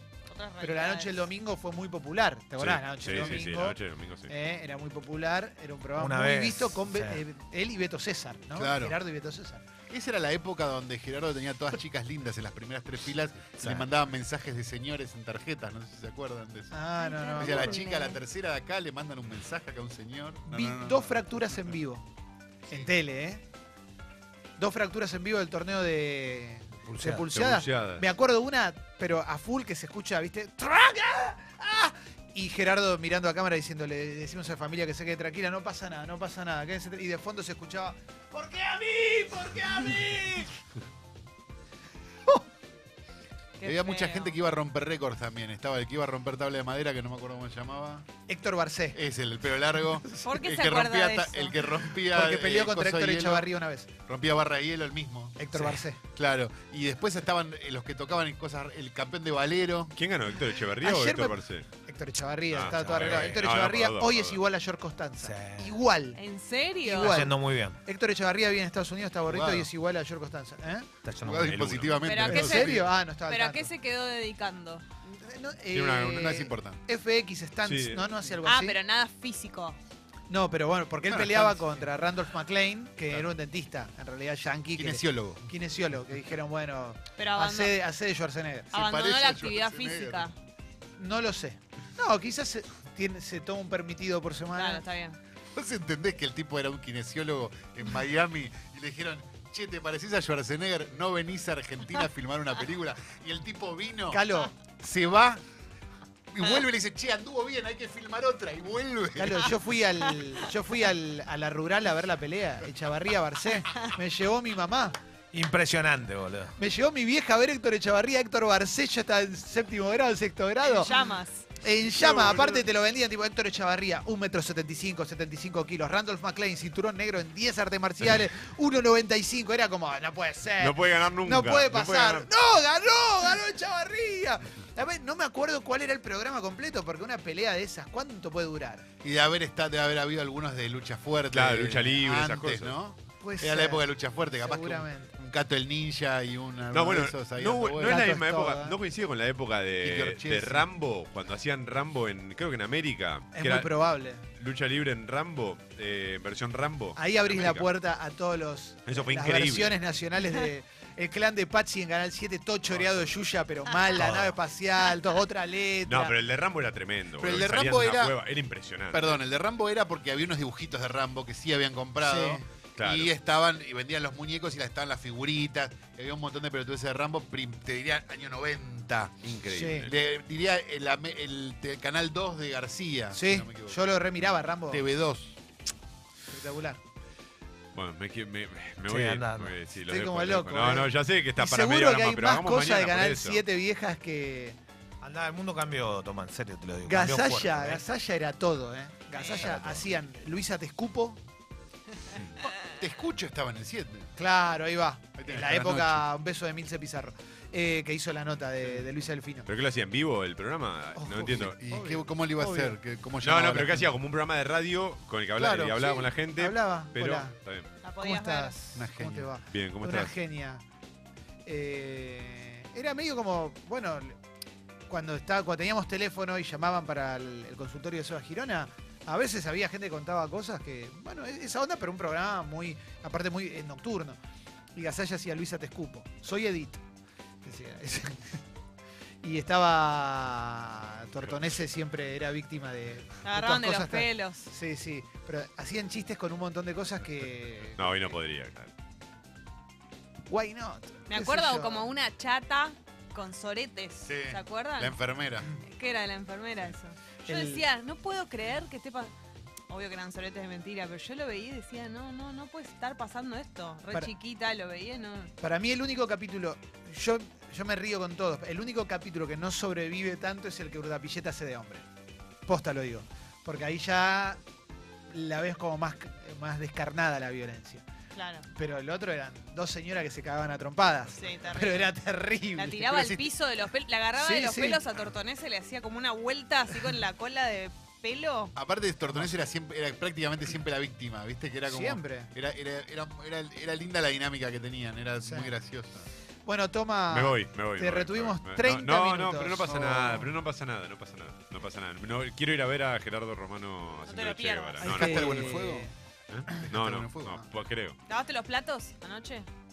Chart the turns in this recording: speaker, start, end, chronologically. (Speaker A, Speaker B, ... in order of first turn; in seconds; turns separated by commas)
Speaker A: 0.3-1.3, Speaker B: 0.6-9.6, Speaker C: 2.6-4.3, Speaker D: 6.0-7.2, Speaker E: 8.6-9.0, Speaker E: 9.9-16.8, Speaker B: 16.7-17.8, Speaker A: 17.0-18.2, Speaker E: 17.3-21.2, Speaker B: 20.5-22.1, Speaker B: 22.7-23.4, Speaker B: 24.6-40.5, Speaker D: 26.9-27.2, Speaker C: 27.3-28.1, Speaker A: 43.6-44.4, Speaker E: 43.6-48.1, Speaker B: 48.3-49.0, Speaker E: 48.9-53.5, Speaker A: 50.2-51.6, Speaker B: 52.1-53.9, Speaker E: 54.1-55.4, Speaker B: 55.4-56.0, Speaker D: 55.5-55.8, Speaker E: 56.1-59.9, Speaker C: 59.9-61.6, Speaker B: 60.8-66.2, Speaker C: 62.5-64.4, Speaker D: 62.6-63.4, Speaker D: 65.2-65.7, Speaker A: 66.1-67.3, Speaker B: 66.8-70.9, Speaker D: 67.0-67.8, Speaker E: 69.2-69.7, Speaker D: 71.0-71.7, Speaker E: 71.2-72.9, Speaker C: 71.4-72.0, Speaker A: 72.0-74.8, Speaker B: 72.2-73.7, Speaker B: 75.0-78.8, Speaker C: 75.7-76.3, Speaker E: 76.0-76.8, Speaker C: 77.6-78.2, Speaker A: 78.4-79.8, Speaker B: 80.3-88.7, Speaker E: 81.0-81.7, Speaker E: 84.7-85.5, Speaker A: 87.2-87.7, Speaker E: 88.7-90.3, Speaker A: 88.7-90.3, Speaker B: 91.0-94.8, Speaker A: 94.5-95.2, Speaker E: 95.5-104.2, Speaker B: 104.1-104.5, Speaker E: 104.8-105.4, Speaker E: 106.3-109.5, Speaker B: 109.2-115.0, Speaker D: 115.3-116.5, Speaker B: 116.6-120.9, Speaker A: 120.6-121.4, Speaker B: 121.6-138.9, Speaker C: 122.0-122.5, Speaker C: 130.6-132.3, Speaker E: 139.0-148.1, Speaker C: 141.3-142.8, Speaker B: 143.2-145.1, Speaker C: 146.7-153.7, Speaker B: 147.8-148.8, Speaker E: 149.8-150.7, Speaker B: 153.3-154.2, Speaker C: 154.3-157.7, Speaker B: 156.9-166.2, Speaker C: 158.9-159.8, Speaker D: 164.0-164.3, Speaker C: 165.9-169.2, Speaker E: 167.2-168.2, Speaker E: 168.9-184.0, Speaker B: 172.0-172.4, Speaker C: 172.8-173.1, Speaker C: 179.2-179.9, Speaker B: 179.5-179.9, Speaker B: 183.1-184.9, Speaker E: 184.7-185.4, Speaker B: 186.3-186.8, Speaker C: 187.7-193.4, Speaker D: 188.9-189.6, Speaker B: 189.8-194.6, Speaker D: 195.0-197.8, Speaker B: 196.9-201.2, Speaker A: 199.1-199.5, Speaker D: 199.4-199.8, Speaker E: 202.6-204.1, Speaker B: 204.2-209.5, Speaker E: 205.2-206.1, Speaker C: 209.4-211.6, Speaker B: 210.9-212.8, Speaker E: 211.4-213.9, Speaker C: 213.2-217.7, Speaker E: 215.4-215.8, Speaker B: 215.4-217.3, Speaker A: 217.8-218.6, Speaker B: 218.0-220.6, Speaker E: 218.7-219.3, Speaker C: 219.5-220.1, Speaker B: 221.4-224.2, Speaker B: 224.9-234.2, Speaker B: 234.7-236.8, Speaker B: 237.4-238.4, Speaker B: 239.2-248.1, Speaker A: 243.2-244.5, Speaker C: 247.8-248.7, Speaker B: 250.3-251.9, Speaker A: 251.1-255.0, Speaker E: 254.1-255.5, Speaker A: 255.6-259.1, Speaker B: 257.3-257.6, Speaker A: 259.7-265.3, Speaker B: 265.4-271.8, Speaker B: 272.4-274.4, Speaker B: 275.1-277.8, Speaker A: 278.1-278.4, Speaker B: 278.5-283.2, Speaker A: 281.2-281.9, Speaker A: 282.6-288.5, Speaker B: 284.2-284.8, Speaker E: 288.6-296.1, Speaker B: 289.1-289.4, Speaker B: 291.7-292.3, Speaker B: 295.2-295.5, Speaker B: 296.4-300.3, Speaker C: 297.1-305.5, Speaker A: 304.1-305.0, Speaker E: 304.8-305.9, Speaker B: 304.8-305.9, Speaker C: 306.3-308.0, Speaker E: 306.6-307.5, Speaker A: 308.1-309.5